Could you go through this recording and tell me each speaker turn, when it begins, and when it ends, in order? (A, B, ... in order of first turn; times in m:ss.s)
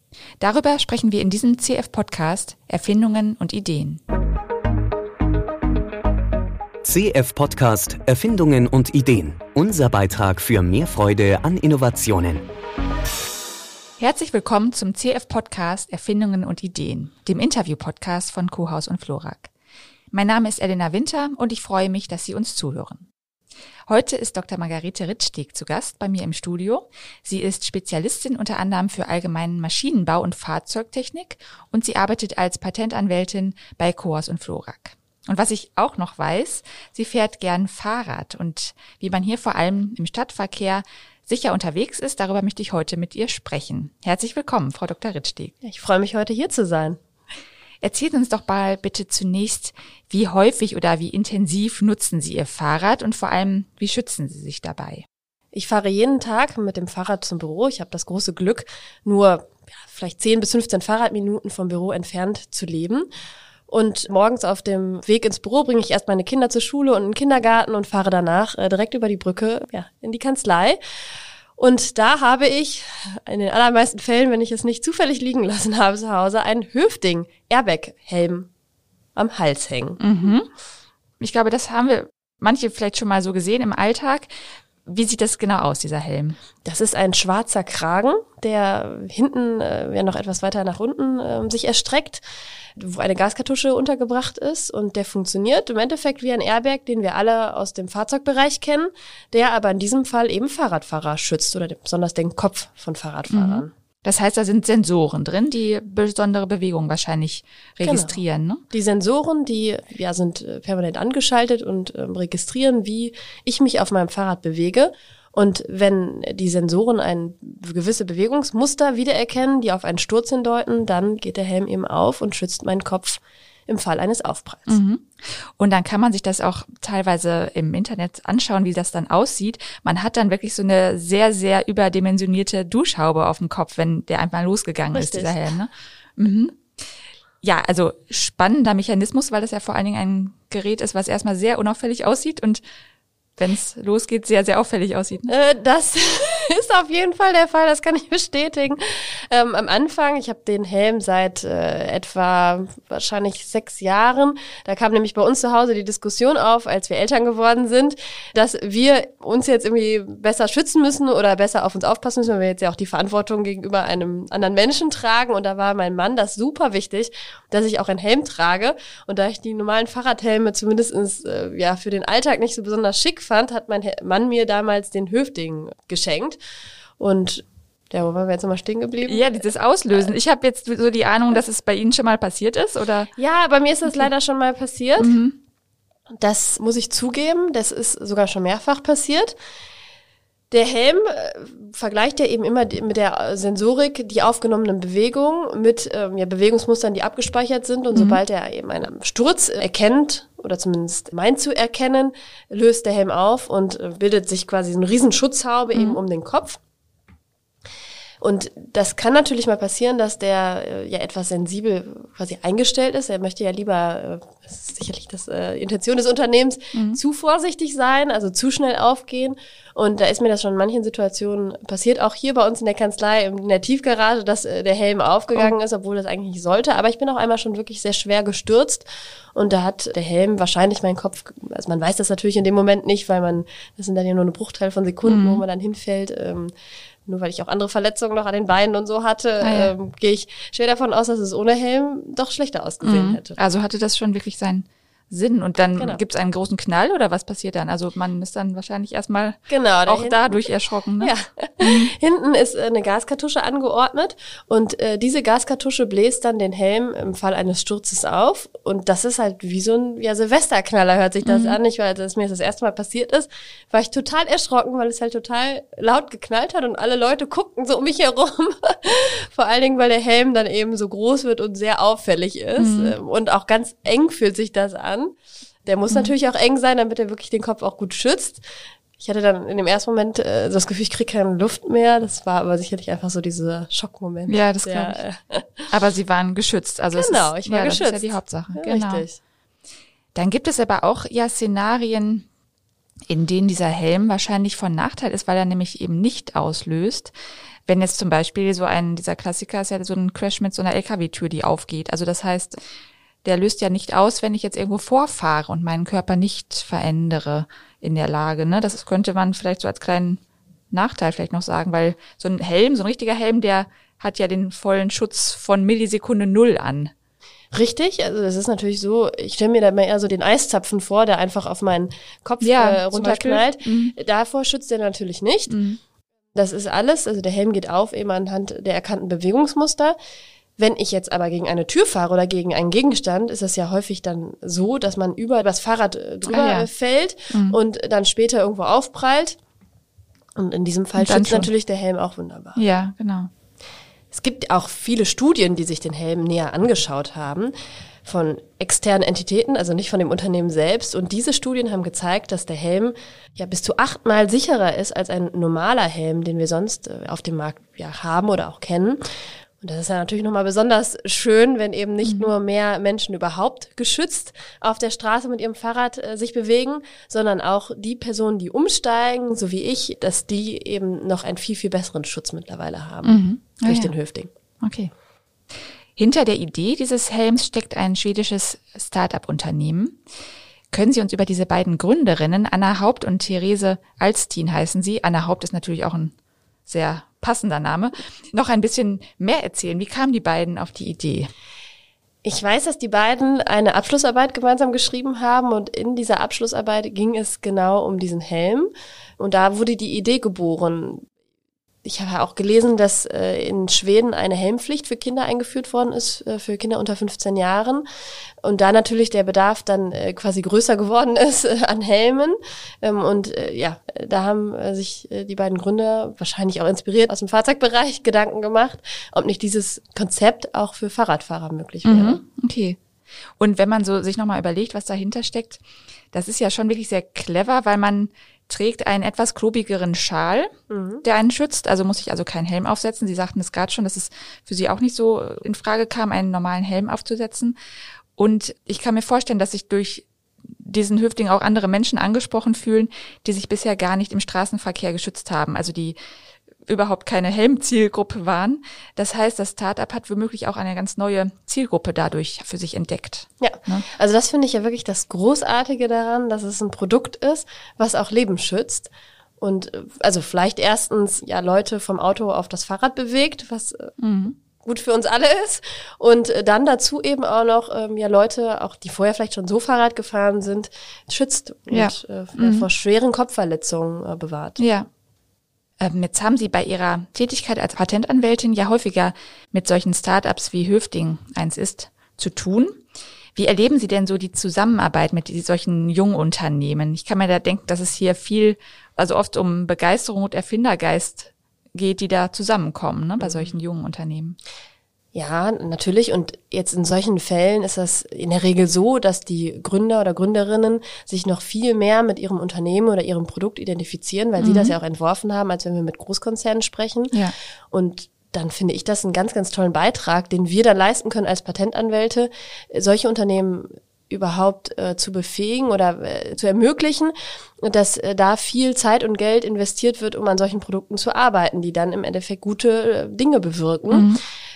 0:00.4-0:04.0 A
0:06.8-0:12.5 B
0:14.0-0:19.5 A
0:20.1-0:23.1 A
0:23.9-0:45.6 A
0:45.6-0:47.0 C
0:47.8-0:55.0 A
0:55.5-1:03.1 C
1:03.7-1:10.8 C
1:11.6-1:18.5 C
1:19.2-1:20.0 C
1:20.0-1:20.5 A
1:21.2-1:24.3 A
1:24.8-1:26.4 A
1:26.6-1:32.2 C
1:32.8-1:43.7 C
1:43.3-1:48.6 A
1:47.8-1:48.2 C
1:48.7-2:04.8 C
2:04.7-2:05.1 A
2:05.6-2:16.6 A
2:14.9-2:15.4 C
2:17.4-2:22.6 A
2:23.4-2:25.3 A
2:25.3-2:56.4 C
2:57.0-2:59.4 C
2:59.0-3:03.1 A
3:03.2-3:05.2 C
3:05.0-3:05.4 A
3:06.2-3:09.4 C
3:10.5-3:26.6 C
3:18.0-3:18.2 A
3:25.7-3:26.0 A
3:28.2-3:56.5 C
3:36.7-3:37.0 A
3:55.1-3:55.4 A
3:57.1-4:03.4 C
3:59.4-3:59.7 A
4:02.8-4:11.9 A
4:05.8-4:06.0 C
4:09.5-4:10.5 C
4:11.0-4:35.2 C
4:21.2-4:21.6 A
4:32.6-4:33.0 A
4:35.7-4:38.4 C
4:39.0-4:45.7 C
4:44.3-4:45.0 A
4:45.7-4:49.1 A
4:47.0-4:49.2 C
4:50.2-4:52.3 A
4:53.1-4:57.1 A
4:57.7-5:02.6 A
5:03.2-5:16.9 A
5:17.5-5:25.6 C
5:22.4-5:24.0 A
5:25.5-5:25.8 A
5:26.4-5:30.0 C
5:30.6-5:39.4 C
5:36.3-5:36.7 A
5:37.3-5:37.6 A
5:40.4-5:42.6 C
5:41.0-5:41.5 A
5:42.6-5:43.3 A
5:44.1-5:47.5 C
5:48.0-5:59.0 C
5:59.6-6:14.3 C
6:02.0-6:02.3 A
6:13.0-6:13.9 A
6:14.6-6:14.9 A
6:16.0-6:20.0 A
6:20.7-6:26.1 A
6:26.7-6:31.3 A
6:32.2-6:41.0 C
6:41.8-6:47.8 C
6:48.4-7:02.2 C
7:01.8-7:02.8 A
7:03.4-7:10.5 A
7:10.7-7:11.0 C
7:11.0-7:17.6 A
7:18.2-7:26.0 A
7:26.7-7:33.9 A
7:33.4-7:38.9 C
7:39.4-7:43.9 C
7:44.0-7:44.4 A
7:44.6-7:54.6 C
7:51.7-7:52.7 A
7:54.6-7:54.9 A
7:55.8-8:02.8 A
8:03.4-8:14.4 A
8:13.2-8:13.5 C
8:15.1-8:27.2 C
8:24.4-8:24.8 A
8:27.7-8:44.1 C
8:43.9-8:44.2 A